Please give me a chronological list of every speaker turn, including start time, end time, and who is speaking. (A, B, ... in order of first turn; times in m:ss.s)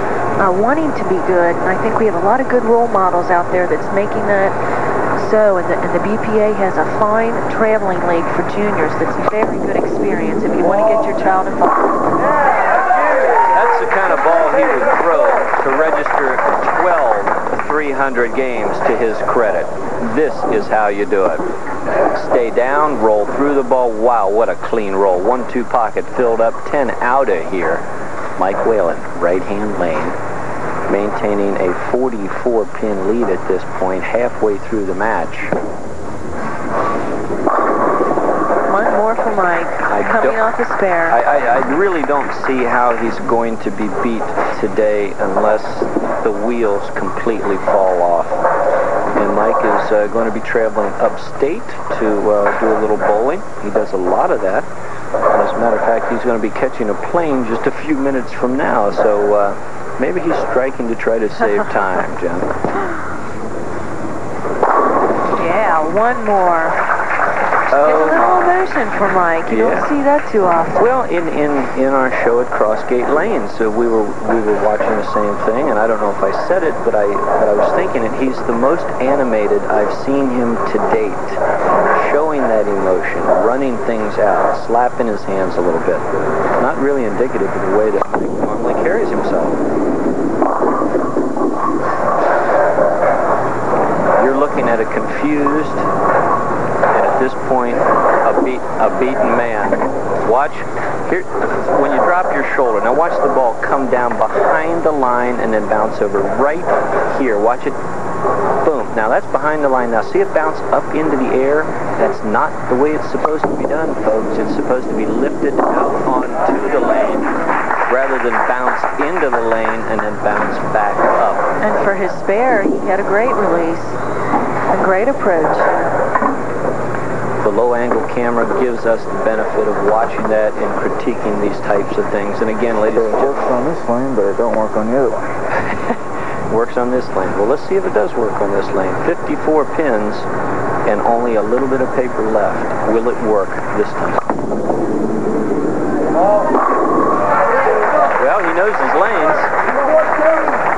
0:00.4-0:04.6 A
0:05.2-0:12.1 A
0:13.0-0:21.4 B
0:22.1-0:27.8 B
0:28.4-0:30.2 B
0:30.9-0:35.6 B
0:38.7-0:41.2 A
0:39.8-0:40.4 B
0:41.1-0:48.4 B
0:49.1-0:54.7 B
0:55.3-1:02.5 B
1:05.3-1:06.8 A
1:07.7-1:08.7 B
1:07.7-1:10.9 A
1:09.5-1:09.9 B
1:10.8-1:29.6 B
1:34.2-1:35.8 B
1:36.9-1:47.8 B
1:48.6-1:57.3 B
1:57.8-2:01.5 B
2:01.6-2:04.0 A
2:04.7-2:05.7 A
2:07.4-2:13.6 B
2:12.8-2:15.3 C
2:15.7-2:16.0 B
2:16.5-2:20.3 B
2:20.8-2:24.2 B
2:28.2-2:29.5 B